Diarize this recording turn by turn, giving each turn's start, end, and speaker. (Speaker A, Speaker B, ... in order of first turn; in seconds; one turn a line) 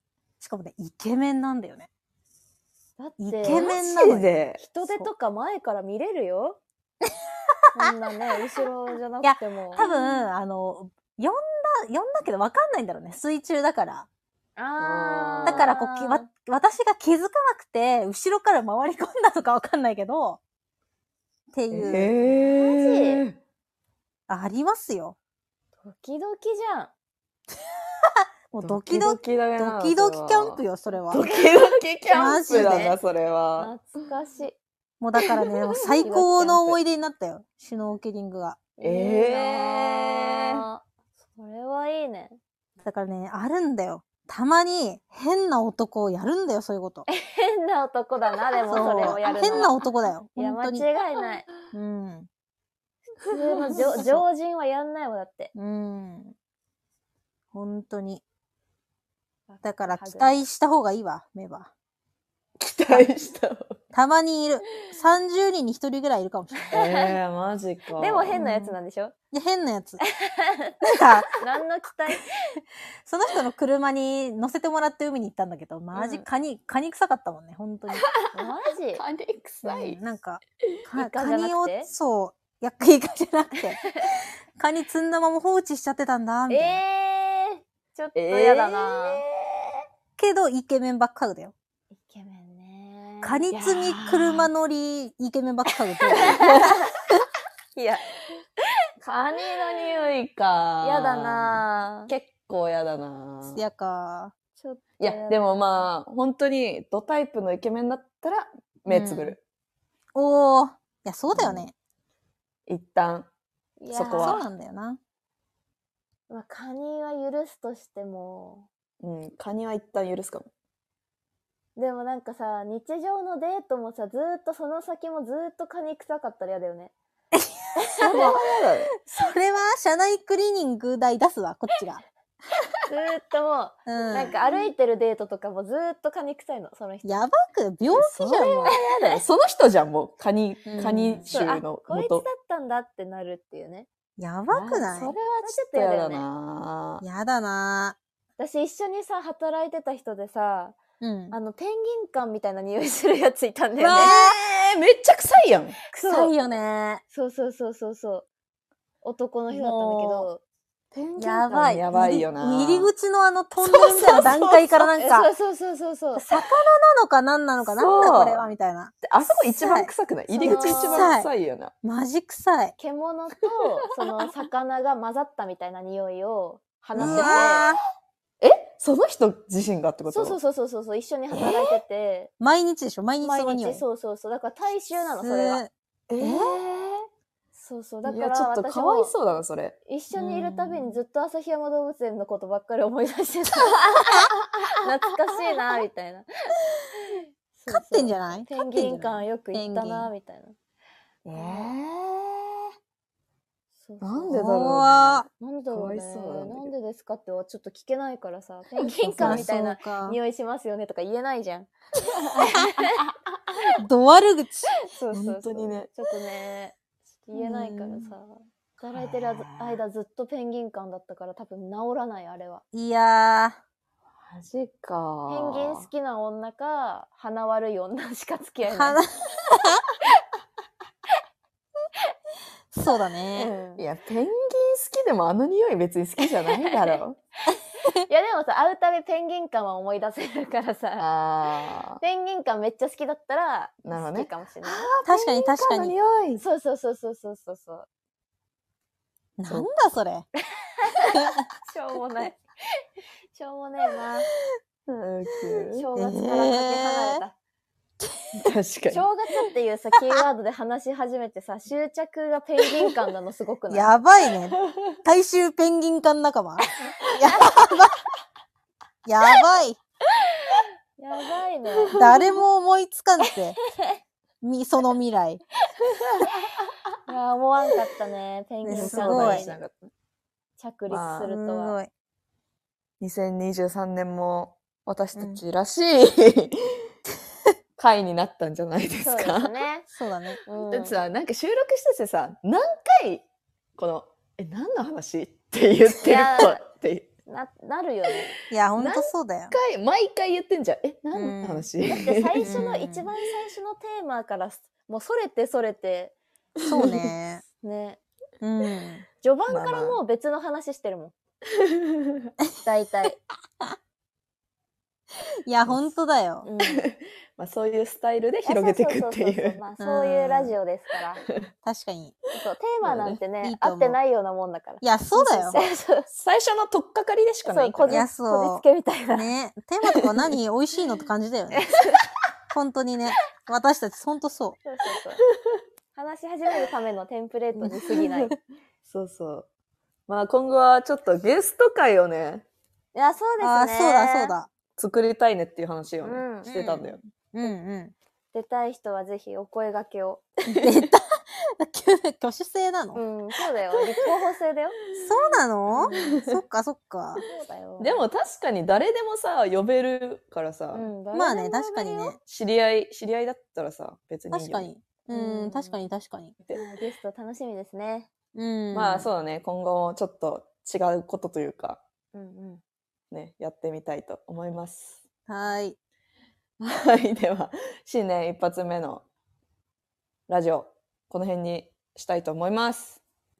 Speaker A: 0.4-1.9
Speaker B: 3.0-3.7
Speaker A: 3.2-4.4
Speaker C: 3.4-4.7
Speaker B: 4.6-6.6
Speaker B: 7.7-10.2
Speaker A: 9.2-14.1
Speaker B: 14.6-16.2
Speaker C: 14.8-15.7
Speaker A: 15.4-20.4
Speaker A: 21.5-22.1
Speaker C: 21.7-23.4
Speaker B: 22.5-23.2
Speaker A: 24.3-25.1
Speaker B: 25.8-26.9
Speaker A: 28.0-31.2
Speaker C: 28.6-33.8
Speaker B: 31.2-33.0
Speaker A: 32.1-32.9
Speaker B: 33.6-34.6
Speaker A: 35.0-38.6
Speaker B: 35.9-36.6
Speaker C: 36.0-36.7
Speaker B: 38.8-40.8
Speaker C: 38.8-40.6
Speaker B: 41.3-42.4
Speaker A: 42.8-47.1
Speaker B: 47.1-51.5
Speaker A: 48.7-50.8
Speaker C: 48.7-49.2
Speaker A: 51.7-52.3
Speaker C: 53.2-54.0
Speaker B: 53.2-55.5
Speaker A: 53.7-54.2
Speaker A: 55.5-56.3
Speaker A: 57.5-58.2
Speaker B: 59.5-60.4
Speaker A: 59.6-61.7
Speaker C: 62.6-63.8
Speaker A: 63.9-66.7
Speaker B: 66.5-67.1
Speaker C: 66.7-68.4
Speaker B: 68.0-69.1
Speaker A: 68.3-68.8
Speaker A: 69.3-70.0
Speaker B: 70.2-70.7
Speaker A: 70.8-71.3
Speaker B: 71.4-72.6
Speaker A: 73.0-78.0
Speaker B: 75.9-76.2
Speaker B: 78.3-79.0
Speaker C: 79.0-80.0
Speaker A: 79.6-84.0
Speaker B: 81.0-81.9
Speaker A: 84.6-86.8
Speaker B: 86.5-89.2
Speaker C: 88.1-89.8
Speaker A: 90.2-91.5
Speaker B: 92.0-93.5
Speaker A: 93.2-96.8
Speaker C: 93.5-94.5
Speaker C: 96.2-96.7
Speaker B: 96.2-96.9
Speaker B: 97.7-98.0
Speaker C: 99.0-103.6
Speaker B: 100.8-102.1
Speaker A: 103.5-104.3
Speaker B: 104.6-105.9
Speaker C: 105.0-109.4
Speaker A: 108.9-109.3
Speaker A: 110.1-111.7
Speaker C: 111.3-111.7
Speaker C: 112.7-113.3
Speaker B: 113.8-114.4
Speaker C: 113.9-114.4
Speaker A: 114.1-115.0
Speaker B: 116.3-118.7
Speaker C: 119.0-120.5
Speaker B: 121.8-126.9
Speaker A: 127.3-128.4
Speaker B: 127.8-128.2
Speaker C: 127.9-128.9
Speaker A: 129.0-132.0
Speaker B: 132.9-137.2
Speaker A: 133.9-134.3
Speaker A: 137.0-138.7
Speaker C: 137.9-142.2
Speaker B: 138.7-139.2
Speaker A: 140.7-141.4
Speaker B: 141.3-143.9
Speaker A: 144.2-145.2
Speaker C: 144.5-147.0
Speaker B: 145.4-146.2
Speaker A: 147.0-147.9
Speaker B: 148.4-150.8
Speaker A: 151.0-151.3
Speaker B: 151.3-154.1
Speaker A: 153.8-154.4
Speaker C: 153.9-155.8
Speaker B: 155.9-156.3
Speaker A: 155.9-157.0
Speaker B: 157.1-158.2
Speaker B: 159.0-160.4
Speaker A: 159.5-160.3
Speaker C: 160.9-162.9
Speaker B: 161.2-161.8
Speaker A: 161.2-165.3
Speaker C: 163.6-164.8
Speaker B: 164.9-166.2
Speaker A: 166.2-169.9
Speaker C: 167.6-168.5
Speaker C: 169.0-171.7
Speaker B: 170.4-171.1
Speaker A: 170.4-171.3
Speaker A: 171.8-172.7
Speaker B: 172.8-177.7
Speaker C: 176.9-177.7
Speaker A: 177.0-177.8
Speaker C: 178.4-180.4
Speaker B: 180.1-182.3
Speaker C: 181.3-181.7
Speaker A: 182.4-183.8
Speaker B: 183.2-185.6
Speaker A: 185.0-186.5
Speaker C: 186.1-187.1
Speaker B: 187.5-189.2
Speaker C: 188.0-189.8
Speaker B: 189.9-193.9
Speaker A: 190.1-191.0
Speaker C: 193.8-194.8
Speaker B: 194.8-196.5
Speaker B: 197.1-200.5
Speaker A: 197.7-200.1
Speaker C: 201.2-202.6
Speaker B: 201.3-201.7
Speaker B: 203.8-204.5
Speaker C: 204.0-206.7
Speaker A: 204.3-205.2
Speaker B: 205.4-211.7
Speaker C: 208.8-209.5
Speaker A: 209.2-210.2
Speaker C: 212.0-213.6
Speaker A: 212.3-212.7
Speaker A: 213.8-214.7
Speaker B: 214.9-216.8
Speaker C: 215.1-215.9
Speaker B: 217.3-222.6
Speaker A: 217.3-218.1
Speaker C: 218.9-219.8
Speaker A: 222.7-223.6
Speaker C: 224.2-225.9
Speaker B: 225.3-229.0
Speaker A: 228.7-229.8
Speaker A: 232.7-233.5
Speaker B: 233.3-233.8
Speaker C: 233.8-237.2
Speaker B: 238.1-241.1
Speaker C: 241.0-242.0
Speaker B: 242.0-244.9
Speaker C: 243.8-246.4
Speaker A: 245.0-245.9
Speaker B: 246.4-247.9
Speaker A: 249.4-250.2
Speaker B: 250.8-252.4
Speaker A: 251.1-251.4
Speaker B: 253.3-254.3
Speaker C: 254.9-255.9
Speaker B: 255.7-257.3
Speaker A: 256.0-257.2
Speaker C: 258.3-259.0
Speaker B: 258.9-263.9
Speaker A: 263.7-268.0
Speaker A: 269.1-269.8
Speaker B: 271.0-272.0
Speaker C: 271.8-272.3
Speaker A: 271.9-273.6
Speaker B: 273.2-274.0
Speaker A: 274.4-275.4
Speaker C: 275.9-276.7
Speaker B: 277.1-279.6
Speaker A: 278.6-279.4
Speaker C: 278.7-279.9
Speaker B: 280.6-281.8
Speaker C: 280.9-281.3
Speaker A: 281.3-281.9
Speaker C: 283.0-286.8
Speaker A: 285.1-285.4
Speaker C: 287.8-289.5
Speaker B: 289.0-289.9
Speaker A: 289.9-290.4
Speaker B: 290.4-290.9
Speaker C: 290.7-293.2
Speaker C: 293.8-297.1
Speaker B: 296.0-296.6
Speaker B: 297.3-298.3
Speaker A: 298.5-299.5
Speaker C: 298.8-302.7
Speaker A: 301.1-301.7
Speaker B: 301.9-306.1
Speaker A: 302.4-303.1
Speaker C: 306.6-307.1
Speaker A: 306.6-307.4
Speaker B: 307.6-308.0
Speaker A: 308.4-309.1
Speaker B: 309.2-311.1
Speaker C: 309.5-310.0
Speaker C: 311.6-312.3
Speaker B: 312.6-313.2
Speaker A: 315.5-316.5
Speaker B: 316.4-316.9
Speaker C: 316.6-319.6
Speaker B: 318.4-321.2
Speaker A: 319.8-320.5
Speaker A: 321.6-322.1
Speaker B: 322.3-326.1
Speaker C: 322.8-323.2
Speaker A: 323.4-324.0
Speaker A: 324.8-325.6
Speaker C: 326.1-328.1
Speaker B: 327.5-329.3
Speaker A: 327.9-331.6
Speaker B: 331.5-332.0
Speaker A: 332.5-334.6
Speaker B: 334.6-335.2
Speaker B: 335.9-338.3
Speaker C: 337.8-338.3
Speaker C: 338.8-339.5
Speaker C: 340.1-342.4
Speaker B: 342.9-344.3
Speaker A: 343.4-344.5
Speaker C: 344.8-347.0
Speaker B: 346.0-346.5
Speaker A: 346.4-347.9
Speaker B: 348.3-350.2
Speaker C: 350.4-350.9
Speaker A: 350.6-353.0
Speaker B: 352.9-354.8
Speaker A: 355.0-357.2
Speaker B: 355.8-356.1
Speaker C: 355.9-356.4
Speaker B: 357.2-358.0
Speaker C: 357.8-360.9
Speaker B: 360.7-362.2
Speaker A: 361.1-362.2
Speaker C: 362.2-364.7
Speaker A: 364.3-366.3
Speaker B: 365.1-365.8
Speaker B: 366.5-368.1
Speaker A: 368.3-369.1
Speaker C: 368.7-371.8
Speaker B: 372.1-372.6
Speaker C: 373.1-375.0
Speaker A: 375.3-375.8
Speaker C: 376.6-379.0
Speaker C: 380.3-383.0